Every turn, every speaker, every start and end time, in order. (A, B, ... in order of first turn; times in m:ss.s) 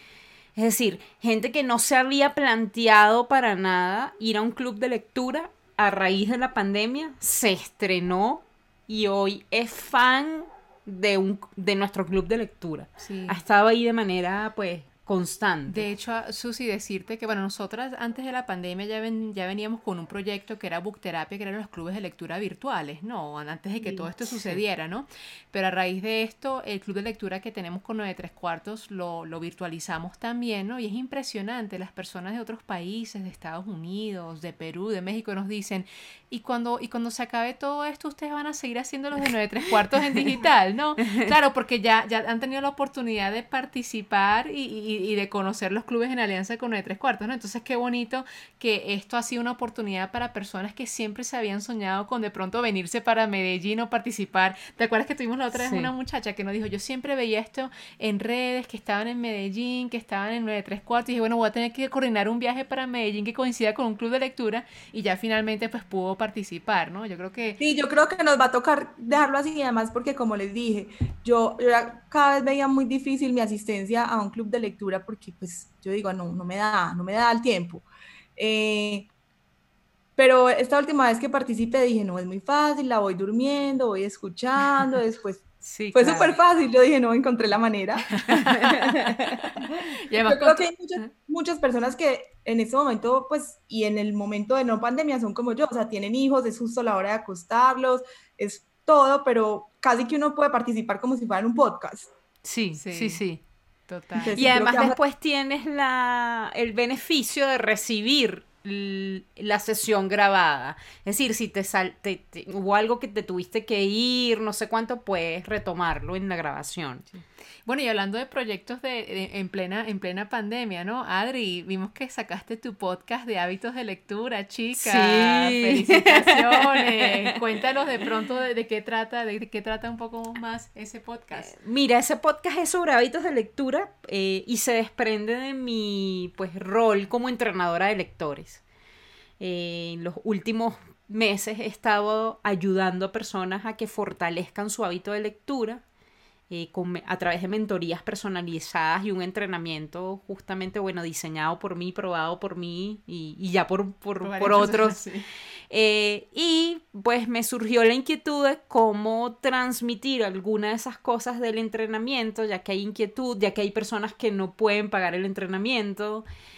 0:00.6-0:15.9 A
0:13.0-0:13.4 B
0:15.7-1:07.6 B
0:55.5-0:55.9 A
1:07.6-1:17.9 C
1:18.4-1:19.1 C
1:20.2-1:29.2 C
1:25.6-1:26.4 A
1:28.1-1:28.7 B
1:28.5-1:29.4 A
1:29.6-1:31.1 B
1:30.2-1:42.1 C
1:42.4-1:43.4 A
1:42.7-1:43.2 B
1:43.9-1:44.6 B
1:44.2-1:45.0 C
1:44.4-1:57.1 A
1:57.7-2:11.5 B
2:04.8-2:07.4 A
2:11.4-2:18.6 A
2:19.4-2:25.8 A
2:26.5-2:35.0 A
2:34.2-2:35.3 B
2:35.7-2:46.3 A